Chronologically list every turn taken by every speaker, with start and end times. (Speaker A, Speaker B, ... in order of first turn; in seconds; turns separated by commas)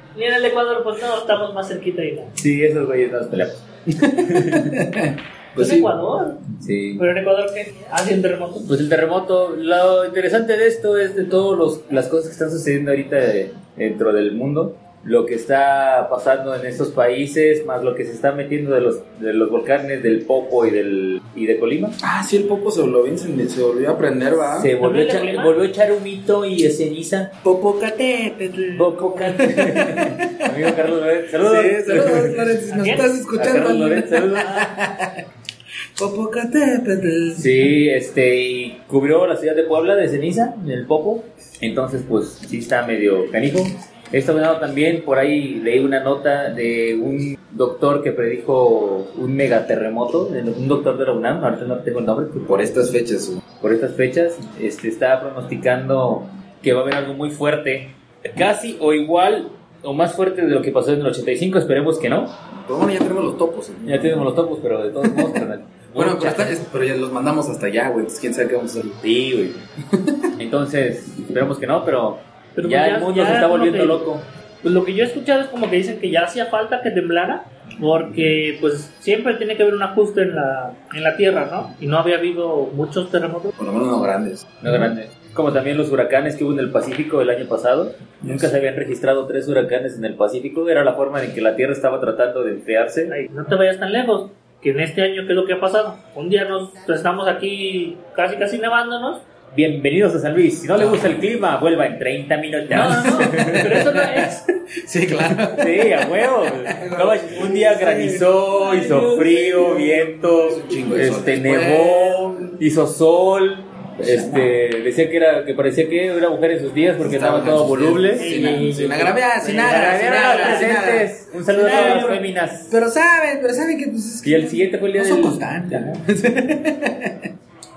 Speaker A: 0.1-2.3, Speaker B: 2.4-4.7, Speaker C: 3.9-5.9, Speaker A: 5.5-6.4, Speaker B: 6.5-7.0, Speaker A: 7.0-8.7, Speaker B: 8.6-22.0, Speaker C: 22.0-24.7, Speaker B: 24.4-27.3, Speaker A: 24.8-25.5, Speaker C: 27.4-30.8, Speaker B: 28.7-32.5, Speaker C: 31.4-35.2, Speaker A: 32.7-33.1, Speaker B: 33.3-34.7, Speaker C: 36.0-37.7, Speaker B: 37.3-52.6, Speaker C: 52.4-53.4, Speaker B: 53.6-62.3, Speaker C: 62.5-64.3, Speaker B: 63.8-66.6, Speaker C: 65.0-65.4, Speaker C: 66.0-69.0, Speaker B: 69.0-69.6, Speaker C: 69.9-70.3, Speaker B: 70.4-74.3, Speaker A: 72.5-74.0, Speaker A: 74.6-83.5, Speaker C: 83.6-84.7, Speaker B: 84.6-93.1, Speaker A: 93.1-99.2, Speaker B: 99.5-103.8, Speaker C: 100.8-101.2, Speaker A: 102.7-104.4, Speaker C: 103.2-112.5, Speaker B: 105.5-118.3, Speaker C: 114.0-114.6, Speaker C: 117.0-127.3, Speaker A: 118.2-120.8, Speaker B: 119.4-122.8, Speaker A: 121.5-122.2, Speaker B: 124.2-126.0